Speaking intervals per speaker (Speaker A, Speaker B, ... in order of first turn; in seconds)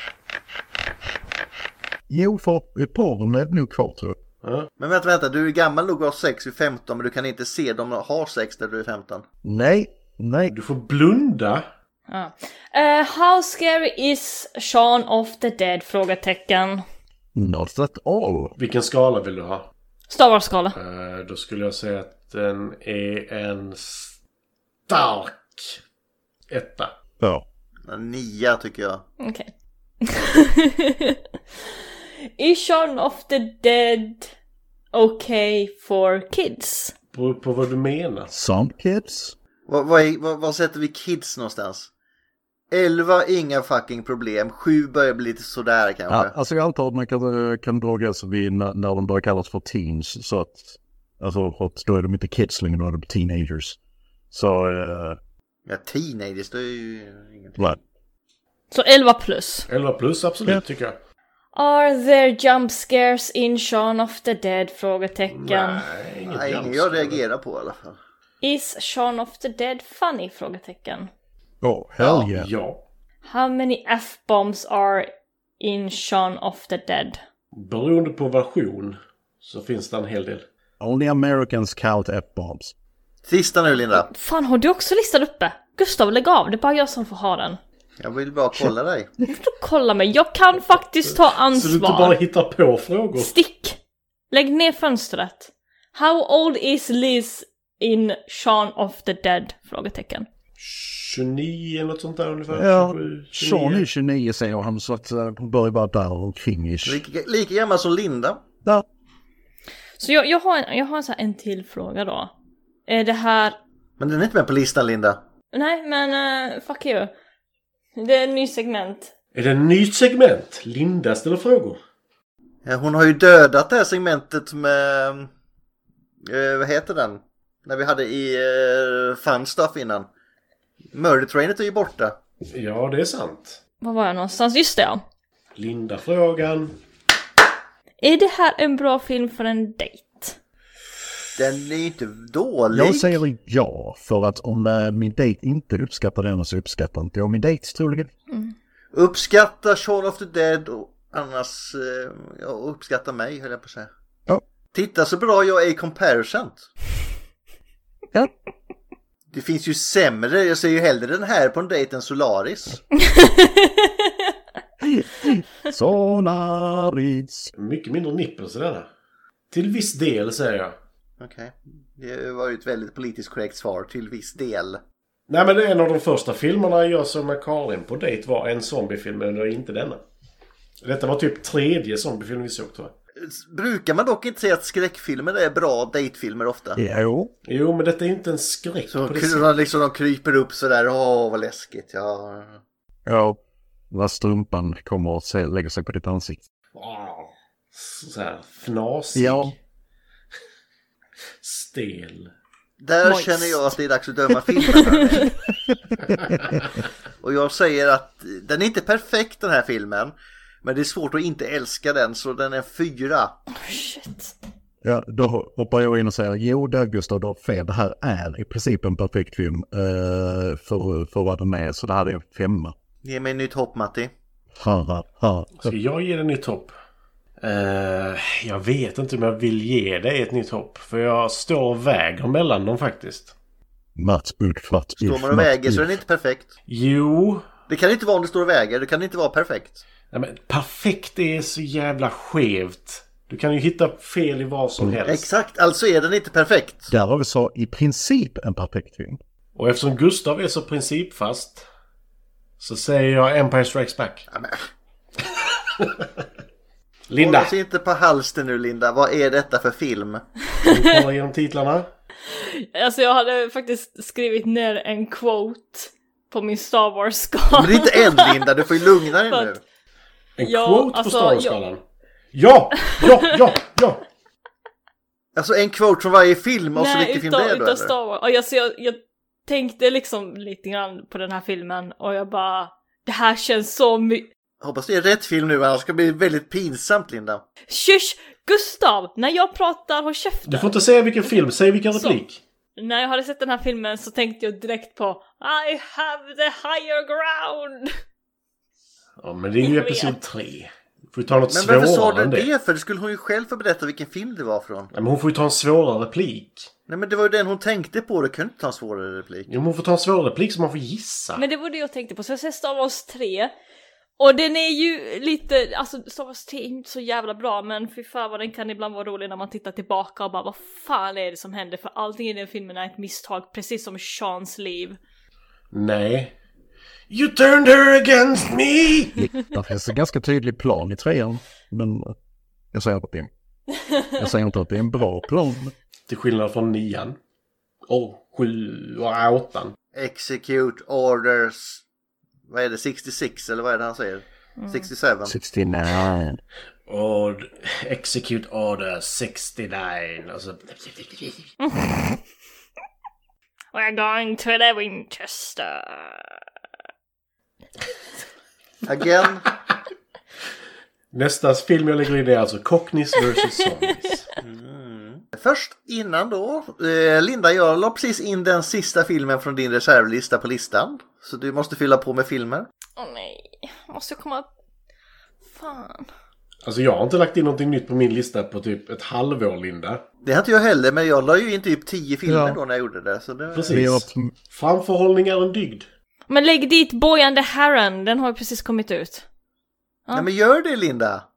Speaker A: 2.1-4.2, 9.4-10.5, 17.4-18.5, 27.2-27.4, 38.3-39.4, 46.1-53.8, 54.3-55.2, 71.6-72.5, 80.8-82.7, 102.5-107.0, 142.7-148.1, 164.8-167.5, 186.8-187.3, 193.1-193.4, 193.9-196.4, 199.2-199.5, 206.2-206.6, 214.8-222.7, 224.6-225.8, 234.0-236.0, 246.9-249.2, 329.2-332.1, 332.7-333.3, 334.2-335.7, 345.2-346.4, 382.3-382.6, 383.7-384.3
Speaker B: 4.4-4.7, 10.5-11.7, 18.6-19.7, 20.8-24.1, 24.9-25.8, 26.5-26.9, 37.1-38.3, 59.7-61.0, 65.3-67.2, 72.2-72.8, 77.5-80.5, 91.0-93.3, 100.6-103.9, 119.3-121.8, 132.5-133.6, 135.6-136.8, 167.6-168.9, 169.5-170.8, 175.3-180.0, 180.8-182.9, 187.5-189.5, 196.7-199.6, 201.4-202.3, 225.6-226.7, 227.4-233.3, 236.7-237.5, 240.1-245.3, 249.6-251.7, 252.6-254.3, 257.1-257.6, 260.6-261.9, 270.4-271.8, 272.3-274.1, 290.5-292.4, 299.2-302.5, 304.9-306.7, 309.5-311.4, 325.7-326.3, 327.1-329.2, 336.1-337.2, 337.9-339.8, 346.9-351.5, 361.1-364.3, 376.6-380.0, 383.5-385.9
Speaker C: 4.8-9.2, 27.9-29.0, 39.7-41.9, 42.7-46.3, 55.7-57.6, 66.3-68.0, 83.3-84.1, 88.0-89.1, 106.8-108.4, 114.0-115.2, 122.7-125.3, 126.3-130.1, 130.9-132.2, 141.4-143.2, 148.9-153.9, 154.7-156.7, 159.3-162.8, 171.2-174.8, 183.2-186.8, 188.9-192.6, 202.8-205.4, 207.2-213.4, 223.0-224.1, 235.0-236.5, 237.7-239.8, 245.1-246.9, 254.3-254.6, 257.2-260.2, 267.5-269.6, 275.4-277.9, 284.6-287.4, 301.5-304.9, 306.9-309.5, 339.9-341.8, 342.5-345.3, 358.9-359.5, 364.4-372.7, 380.2-383.9, 390.1-391.2
Speaker D: 12.1-16.8, 20.1-20.8, 29.2-29.5, 30.0-31.2, 32.4-34.3, 34.9-36.9, 58.7-59.7, 61.6-65.8, 68.4-71.1, 73.2-75.1, 75.6-77.2, 83.9-87.6, 89.3-92.2, 93.2-93.8, 94.3-100.3, 110.0-112.3, 112.9-113.6, 115.5-117.1, 118.0-119.1, 133.8-135.0, 138.0-140.4, 163.1-164.1, 203.0-203.7, 204.7-205.3, 213.6-214.3, 262.3-268.7, 270.4-271.6, 276.8-284.3, 287.7-290.7, 292.8-298.0, 299.6-300.2, 311.4-313.5, 314.2-325.0, 344.6-344.9, 351.6-352.2, 353.7-356.4, 373.0-374.5, 375.5-376.1, 386.3-389.3